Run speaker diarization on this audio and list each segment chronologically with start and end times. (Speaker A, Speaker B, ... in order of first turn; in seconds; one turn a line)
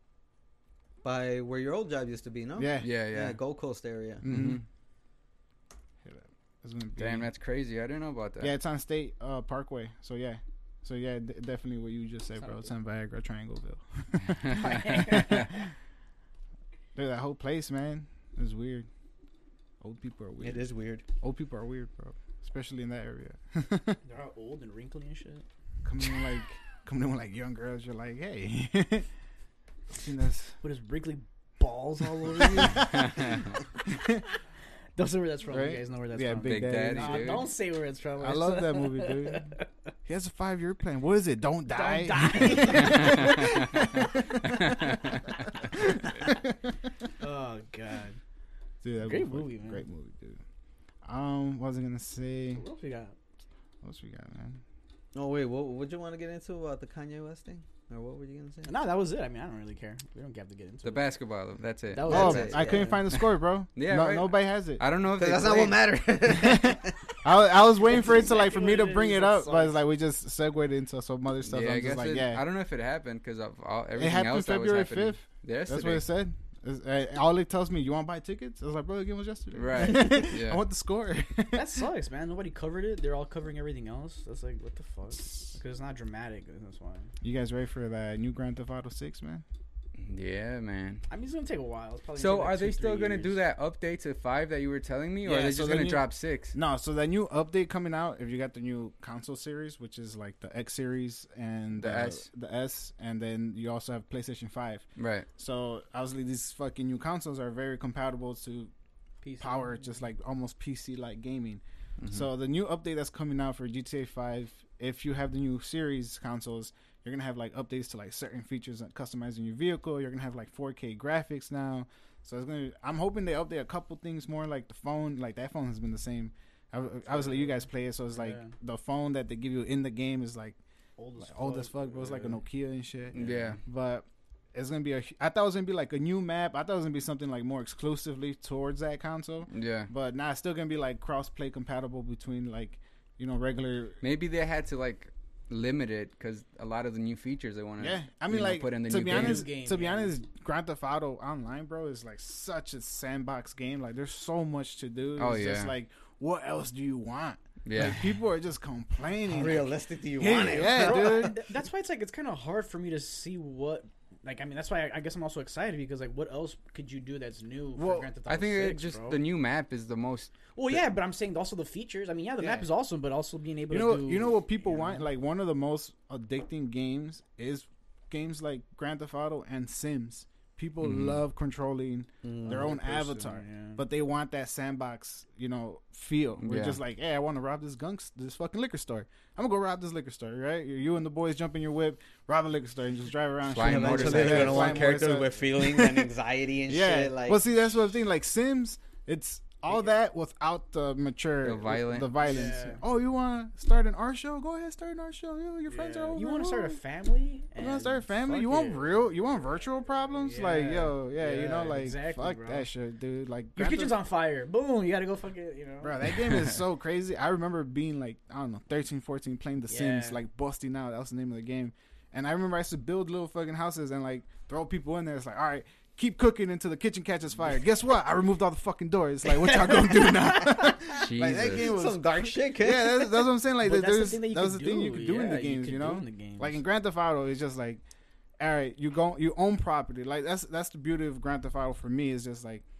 Speaker A: 1.0-4.2
Speaker B: 2.5-2.9
Speaker C: 2.8-3.4
Speaker B: 4.2-4.6
Speaker C: 4.2-4.6
Speaker B: 6.0-7.3
Speaker C: 7.0-8.5
Speaker B: 8.4-15.6
Speaker D: 12.4-12.7
Speaker C: 14.5-15.2
Speaker D: 14.6-15.5
Speaker B: 16.9-18.9
Speaker B: 19.8-20.6
Speaker A: 20.4-21.1
Speaker B: 21.2-24.0
Speaker D: 24.1-25.4
Speaker B: 25.8-29.1
Speaker B: 29.9-30.6
Speaker D: 30.6-33.3
Speaker B: 32.0-34.3
Speaker C: 33.0-33.5
Speaker D: 35.0-39.7
Speaker B: 35.5-37.5
Speaker C: 36.5-37.5
Speaker B: 38.2-39.5
Speaker B: 40.0-45.0
Speaker D: 41.7-43.8
Speaker C: 42.8-43.5
Speaker C: 44.7-45.1
Speaker B: 45.8-46.5
Speaker D: 47.2-48.2
Speaker B: 48.8-50.4
Speaker D: 49.0-49.8
Speaker B: 51.0-52.6
Speaker D: 52.5-53.2
Speaker B: 53.8-54.6
Speaker A: 55.1-58.7
Speaker D: 58.7-61.1
Speaker C: 60.8-62.4
Speaker D: 61.9-63.0
Speaker A: 62.1-63.0
Speaker B: 62.1-64.8
Speaker C: 63.8-65.8
Speaker A: 65.2-67.2
Speaker B: 66.4-72.4
Speaker D: 68.0-69.7
Speaker C: 71.5-76.0
Speaker B: 74.0-81.7
Speaker C: 79.5-80.6
Speaker D: 81.5-87.1
Speaker B: 87.2-89.5
Speaker C: 90.0-91.0
Speaker D: 91.1-93.4
Speaker C: 92.2-96.5
Speaker B: 95.2-108.7
Speaker C: 101.8-102.2
Speaker C: 105.0-105.3
Speaker D: 109.2-110.0
Speaker B: 109.4-130.6
Speaker C: 112.0-112.3
Speaker D: 127.1-128.5
Speaker D: 131.0-132.4
Speaker B: 131.2-144.0
Speaker C: 133.1-133.6
Speaker C: 139.5-139.9
Speaker C: 144.0-149.4
Speaker B: 147.8-161.4
Speaker D: 149.1-150.1
Speaker C: 155.2-155.7
Speaker C: 157.6-158.2
Speaker A: 159.3-161.3
Speaker D: 160.5-169.2
Speaker B: 167.8-168.1
Speaker C: 168.3-170.8
Speaker D: 170.6-175.1
Speaker B: 173.7-196.1
Speaker C: 180.8-181.2
Speaker A: 182.2-182.7
Speaker D: 182.5-183.8
Speaker C: 186.4-186.8
Speaker C: 193.5-194.9
Speaker A: 193.6-197.5
Speaker D: 194.0-194.6
Speaker B: 196.7-206.8
Speaker C: 201.4-202.2
Speaker D: 202.2-202.8
Speaker D: 205.7-209.3
Speaker B: 207.6-213.9
Speaker D: 210.2-212.7
Speaker D: 213.6-216.1
Speaker B: 215.8-237.8
Speaker D: 219.7-220.2
Speaker D: 229.2-230.9
Speaker C: 231.0-231.8
Speaker A: 231.2-233.3
Speaker D: 233.6-236.6
Speaker B: 238.4-242.6